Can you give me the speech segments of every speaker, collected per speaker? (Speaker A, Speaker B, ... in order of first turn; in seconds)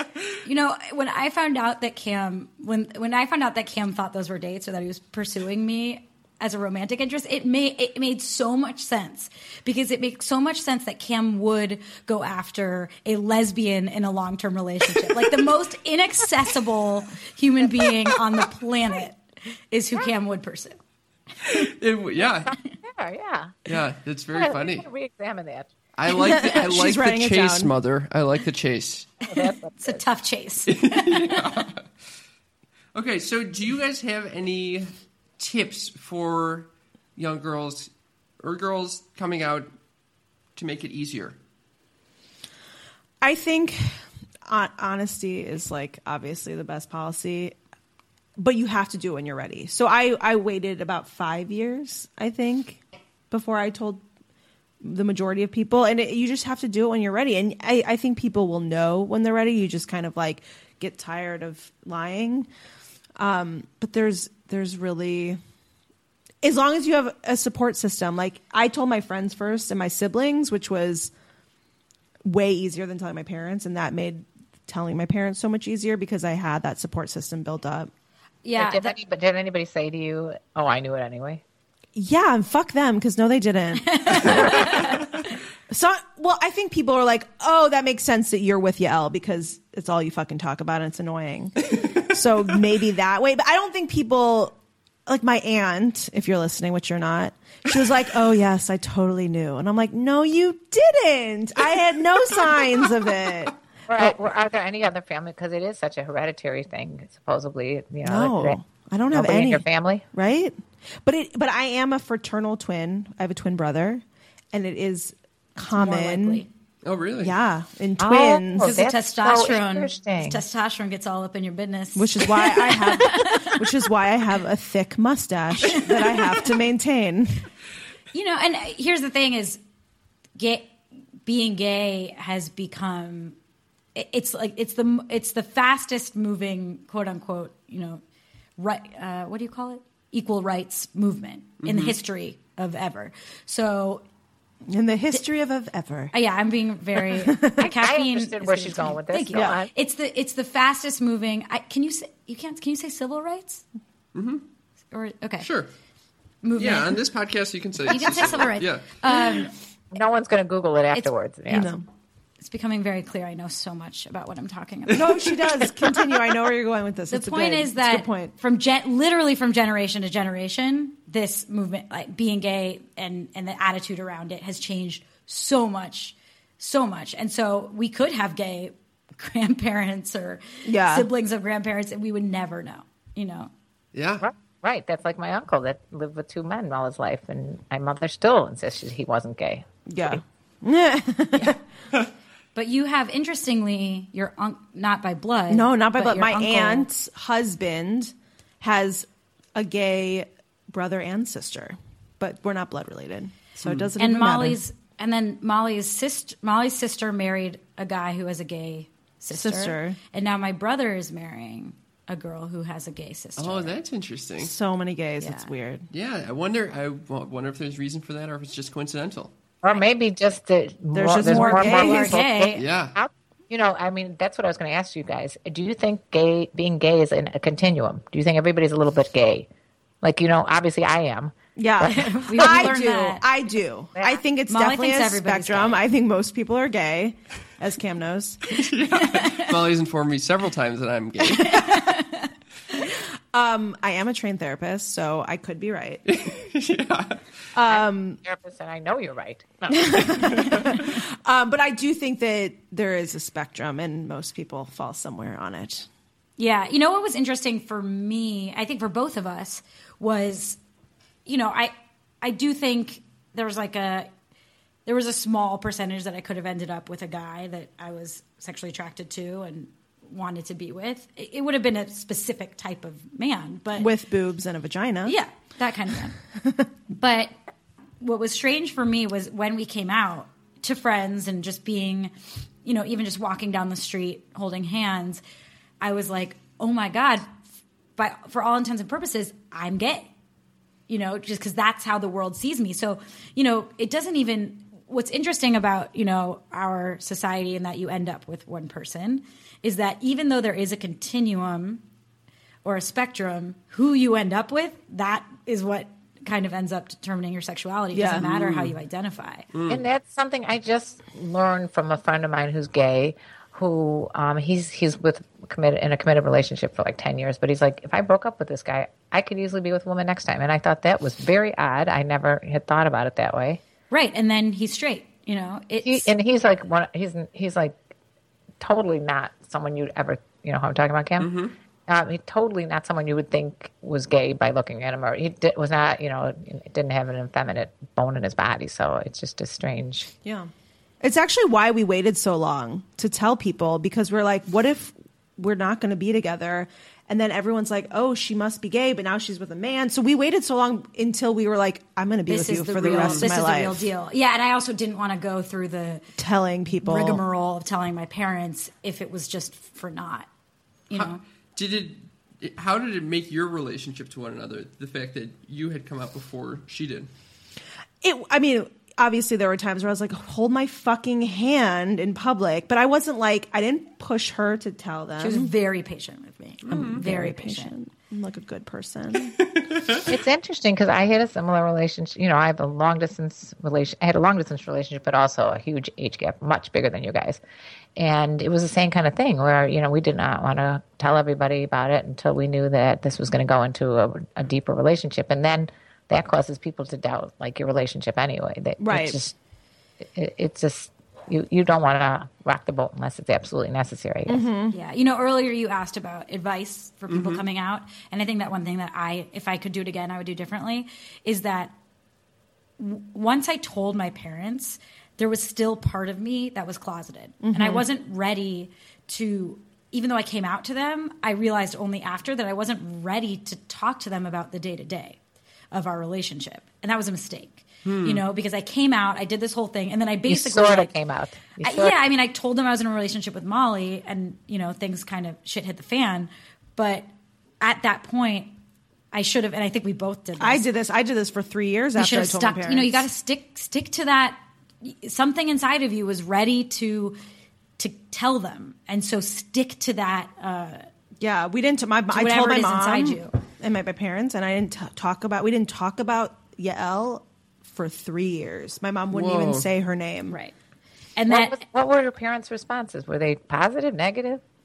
Speaker A: 0.4-20.8, 29.8-31.4, 78.4-78.9, 83.8-85.1, 115.6-116.5, 118.6-123.7, 125.6-126.5, 128.1-129.6, 130.4-130.7, 131.2-133.4, 133.9-138.0, 138.6-144.0, 146.1-153.6, 154.9-155.5, 156.4-157.0, 157.9-159.5, 162.4-165.4, 167.1-183.5, 192.5-196.9, 204.0-213.7, 215.2-215.5, 221.2-222.6, 231.8-233.2, 234.5-235.8, 238.9-239.5, 241.3-242.3, 256.4-260.6, 261.2-264.1, 264.9-273.9, 275.1-276.2, 276.9-277.3, 278.0-282.1, 282.6-285.2, 285.8-287.2, 288.0-290.1, 290.9-301.8, 302.6-309.4, 323.9-326.1, 352.3-356.0, 356.8-360.3, 360.9-361.2, 375.2-377.7, 404.7-411.7, 412.8-425.2, 425.7-430.9, 431.6-437.1, 437.6-438.5, 439.1-440.6, 441.9-447.2, 447.8-450.9, 452.1-453.4, 460.3-460.5, 461.1-461.6
Speaker B: 21.4-22.5, 23.7-24.9, 25.9-29.1, 30.7-31.9, 32.9-37.9, 38.4-39.7, 40.5-41.4, 116.8-117.3, 141.6-141.9, 154.1-154.4, 155.4-155.7, 156.6-159.4, 183.9-184.2, 203.6-203.9, 213.4-214.5, 215.9-219.3, 222.5-222.9, 238.5-241.8, 246.1-247.2, 308.2-308.7, 309.5-309.8, 331.2-331.5, 352.8-353.3, 360.9-367.1, 376.6-377.0, 379.7-380.0, 407.1-407.4, 427.8-428.2, 459.1-459.7
Speaker C: 22.2-23.7, 24.3-25.7, 29.2-30.0, 78.5-81.4, 103.9-108.6, 109.1-110.0, 118.0-120.4, 147.6-149.7, 159.9-161.7, 184.2-190.2, 219.6-229.5, 230.0-232.7, 233.9-234.2, 247.7-250.7, 309.7-323.6, 325.8-327.8, 328.6-331.3, 331.9-340.1, 380.1-387.4, 387.9-399.3, 400.0-404.5, 430.3-432.0, 461.3-464.4
Speaker D: 26.1-27.7, 43.2-47.5, 48.4-54.0, 54.8-62.5, 63.2-65.4, 66.4-71.1, 72.2-77.9, 82.0-85.0, 85.7-94.5, 95.1-104.1, 108.0-116.4, 117.2-118.7, 122.0-127.4, 144.7-146.1, 146.9-147.6, 161.5-161.8, 164.9-168.3, 180.7-181.1, 189.9-191.6, 195.5-204.6, 209.3-210.0, 214.4-215.9, 220.9-222.1, 231.6-238.4, 242.9-246.0, 247.5-248.2, 249.7-255.9, 273.8-275.1, 307.9-308.2, 340.2-340.5, 341.0-353.9, 356.2-357.2, 368.0-375.5, 376.7-379.4, 398.8-399.2, 404.3-404.7, 417.4-417.8, 440.4-443.1, 451.2-460.4